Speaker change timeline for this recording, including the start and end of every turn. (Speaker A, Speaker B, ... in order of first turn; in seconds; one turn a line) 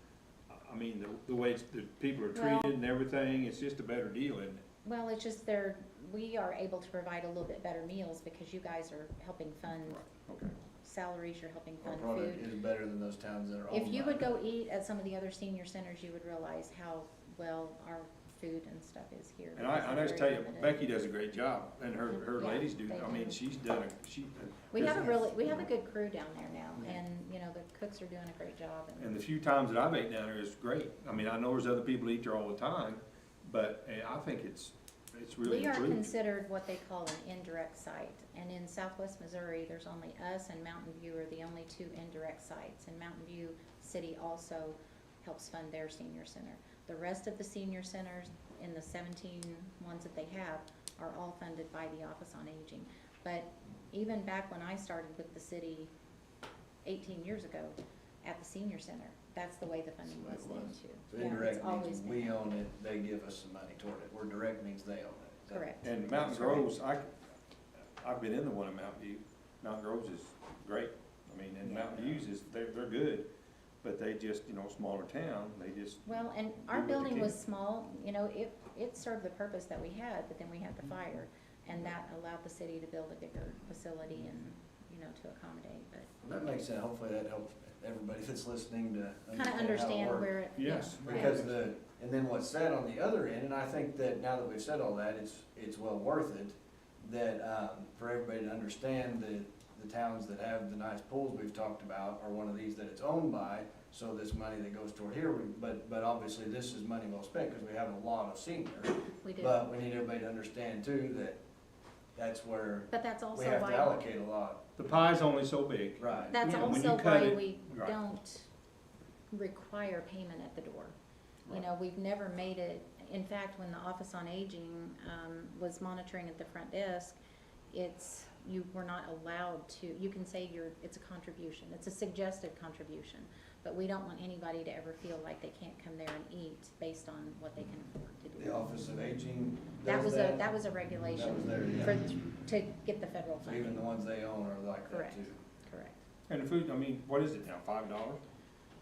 Speaker A: 0.5-4.6
Speaker B: 2.3-2.7
Speaker B: 4.8-10.1
Speaker A: 9.9-10.6
Speaker B: 10.8-12.5
Speaker C: 11.8-14.3
Speaker B: 13.7-20.8
Speaker A: 19.6-25.3
Speaker B: 22.3-23.4
Speaker B: 24.7-29.2
Speaker A: 29.0-36.1
Speaker B: 35.4-55.9
Speaker B: 56.8-62.5
Speaker C: 60.0-65.7
Speaker B: 65.5-66.7
Speaker A: 65.8-67.1
Speaker A: 68.0-73.3
Speaker C: 71.8-72.2
Speaker A: 73.8-76.0
Speaker B: 76.0-86.3
Speaker A: 76.7-77.3
Speaker C: 86.2-90.3
Speaker B: 89.3-91.5
Speaker A: 90.6-91.5
Speaker C: 91.0-111.4
Speaker B: 109.2-109.6
Speaker C: 112.2-114.6
Speaker B: 112.9-114.0
Speaker A: 114.8-118.0
Speaker C: 116.0-116.4
Speaker B: 116.3-118.5
Speaker B: 119.3-120.9
Speaker B: 121.5-127.2
Speaker B: 127.7-138.6
Speaker C: 138.4-140.5
Speaker B: 139.8-143.8
Speaker C: 141.1-142.0
Speaker C: 143.4-145.4
Speaker B: 144.9-146.0
Speaker A: 146.3-148.2